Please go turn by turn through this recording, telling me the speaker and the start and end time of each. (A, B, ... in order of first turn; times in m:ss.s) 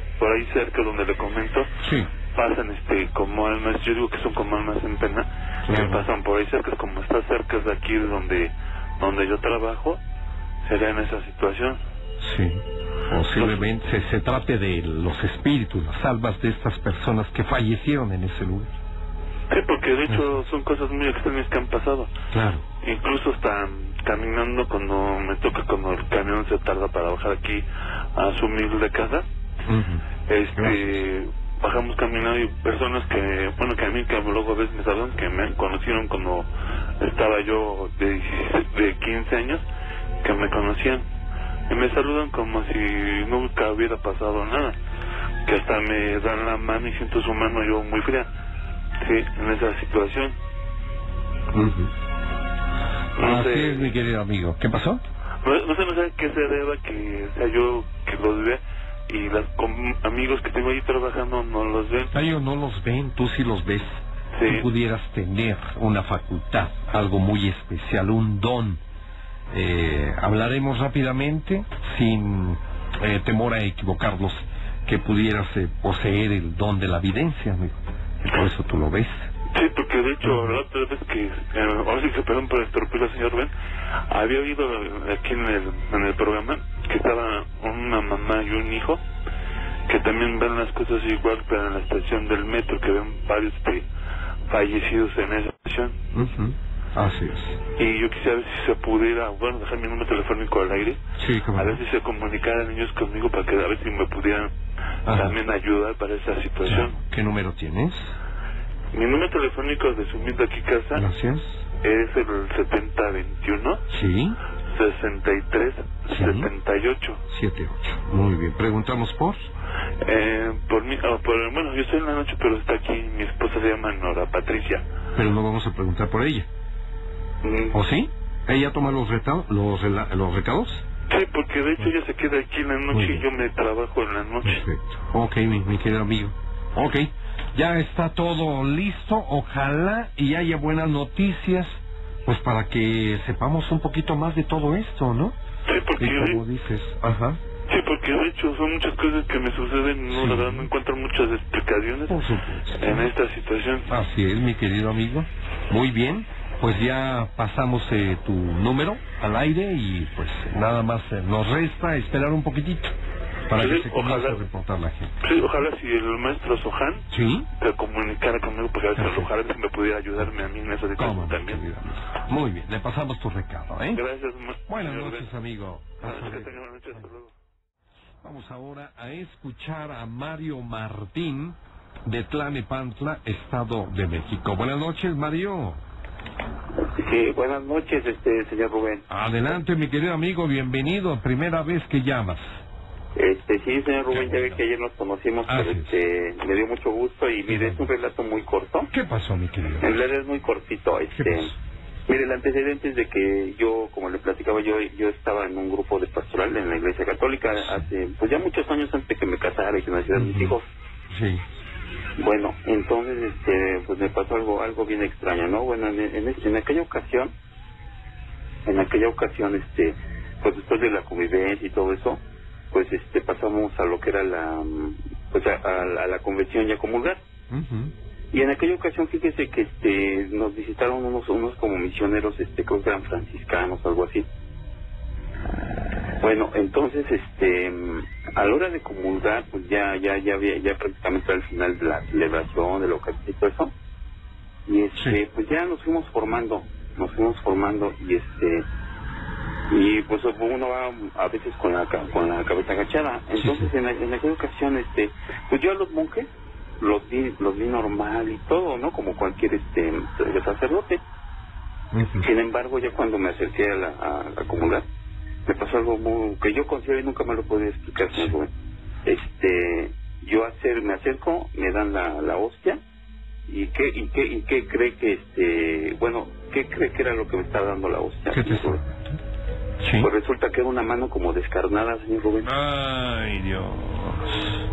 0:00.2-0:01.7 A
0:01.8-0:02.1 B
0:02.3-0:10.0 A
0:05.7-0:06.0 B
0:10.6-0:11.8 A
0:12.2-0:18.8 B
0:13.3-0:13.7 A
0:19.5-0:22.1 A
0:20.1-0:20.4 B
0:22.3-0:22.6 B
0:22.8-0:27.6 A
0:28.2-0:29.2 A
0:29.7-0:30.0 B
0:30.3-0:36.5 A
0:30.6-0:30.9 B
0:37.0-0:39.6 A
0:40.2-0:41.0 A
0:41.7-0:44.8 A
0:45.4-0:48.3 A
0:49.0-0:50.3 A
0:51.5-0:51.9 B
0:53.2-0:53.9 A
0:53.2-0:55.0 B
0:55.4-1:02.1 A
1:02.1-1:08.8 B
1:04.3-1:04.7 A
1:09.5-1:19.3 B
1:19.5-1:23.5 A
1:20.2-1:20.6 B
1:24.1-1:29.0 A
1:29.9-1:33.8 A
1:34.5-1:36.0 A
1:36.1-1:37.6 B
1:37.8-1:41.0 A
1:41.2-1:41.8 B
1:41.5-1:44.5 A
1:45.1-1:45.4 B
1:45.1-1:46.9 A
1:46.6-1:48.1 B
1:48.9-1:51.0 A
1:50.9-1:51.6 B
1:51.8-1:53.8 A
1:53.9-1:54.4 B
1:54.7-1:57.2 A
1:56.1-1:56.5 B
1:57.3-1:59.5 B
2:00.0-2:04.8 A
2:05.2-2:06.5 B
2:07.4-2:07.7 C
2:07.7-2:10.8 B
2:11.1-2:14.6 A
2:12.9-2:13.2 B
2:14.4-2:25.4 B
2:25.7-2:26.4 A
2:26.0-2:27.4 B
2:27.7-2:32.2 A
2:30.1-2:30.7 B
2:32.1-2:33.1 B
2:32.7-2:33.9 A
2:33.9-2:43.0 B
2:43.5-2:45.1 B
2:43.5-2:44.4 A
2:45.2-2:47.0 A
2:47.1-2:47.5 B
2:47.6-2:51.7 A
2:49.0-2:49.3 B
2:51.0-2:54.0 B
2:53.9-2:55.2 A
2:54.7-2:57.0 B
2:56.0-2:57.3 A
2:58.2-3:05.8 B
3:06.8-3:09.0 C
3:09.1-3:12.6 B
3:13.1-3:18.9 C
3:14.1-3:14.5 B
3:15.5-3:15.9 B
3:17.5-3:17.8 B
3:18.9-3:19.9 B
3:19.8-3:21.5 C
3:21.1-3:21.5 B
3:22.1-3:30.6 C
3:30.1-3:30.6 B
3:31.1-3:31.4 B
3:32.2-3:37.3 C
3:38.6-3:47.2 C
3:47.5-3:47.9 B
3:48.3-3:54.3 C
3:56.2-4:03.7 C
4:04.7-4:08.7 C
4:09.7-4:21.0 C
4:13.4-4:13.7 B
4:21.9-4:22.3 B
4:22.2-4:24.8 C
4:25.4-4:28.5 C
4:29.0-4:32.8 C
4:33.5-4:38.8 C
4:38.3-4:39.2 B
4:39.8-4:40.1 B
4:40.0-4:42.5 C
4:42.4-4:44.6 B